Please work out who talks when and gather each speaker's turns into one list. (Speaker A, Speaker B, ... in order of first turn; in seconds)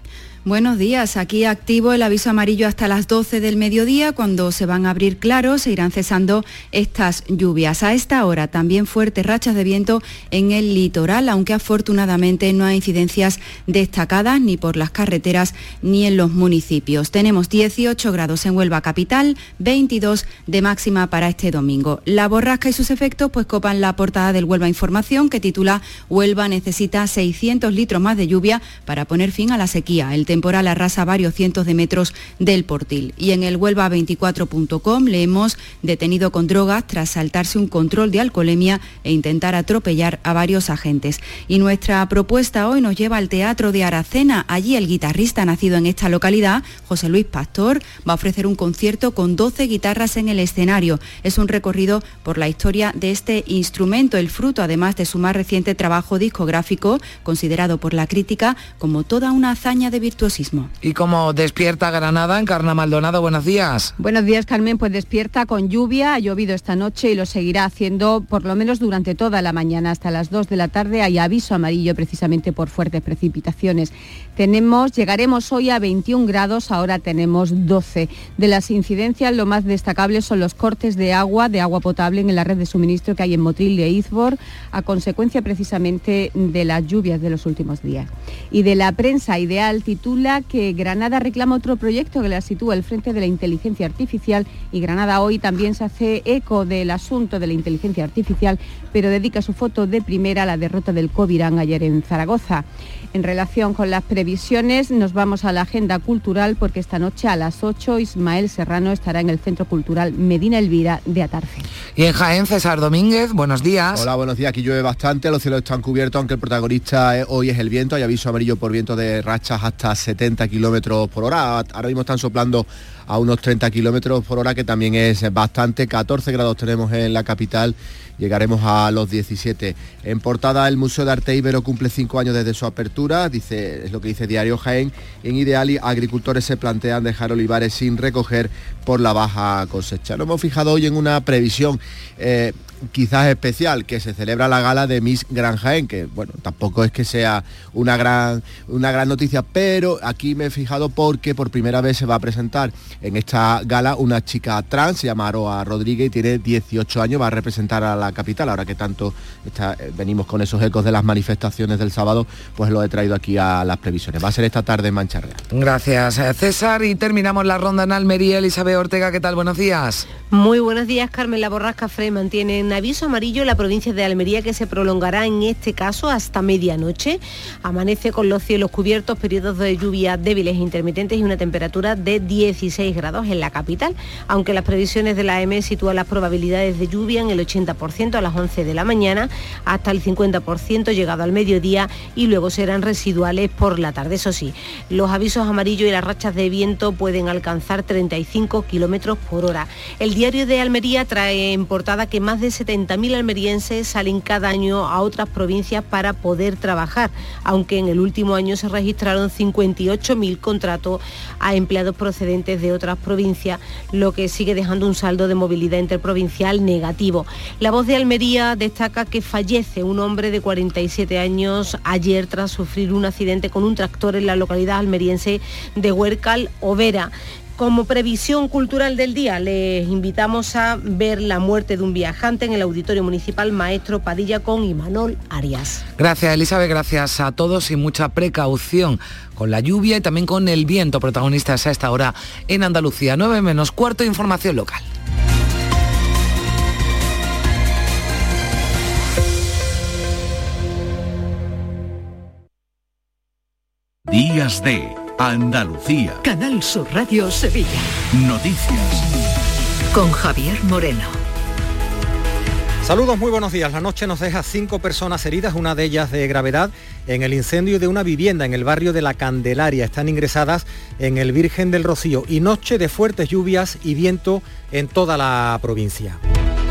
Speaker A: 0.4-60.7
Speaker B: 60.8-63.9, 112.0-114.1, 165.5-170.1, 236.0-244.8
Speaker C: 64.0-111.7
Speaker D: 113.9-165.4
Speaker E: 170.3-235.8
Speaker F: 254.1-256.2, 258.1-259.0
Speaker G: 256.2-257.9, 259.9-261.2
Speaker H: 262.8-276.2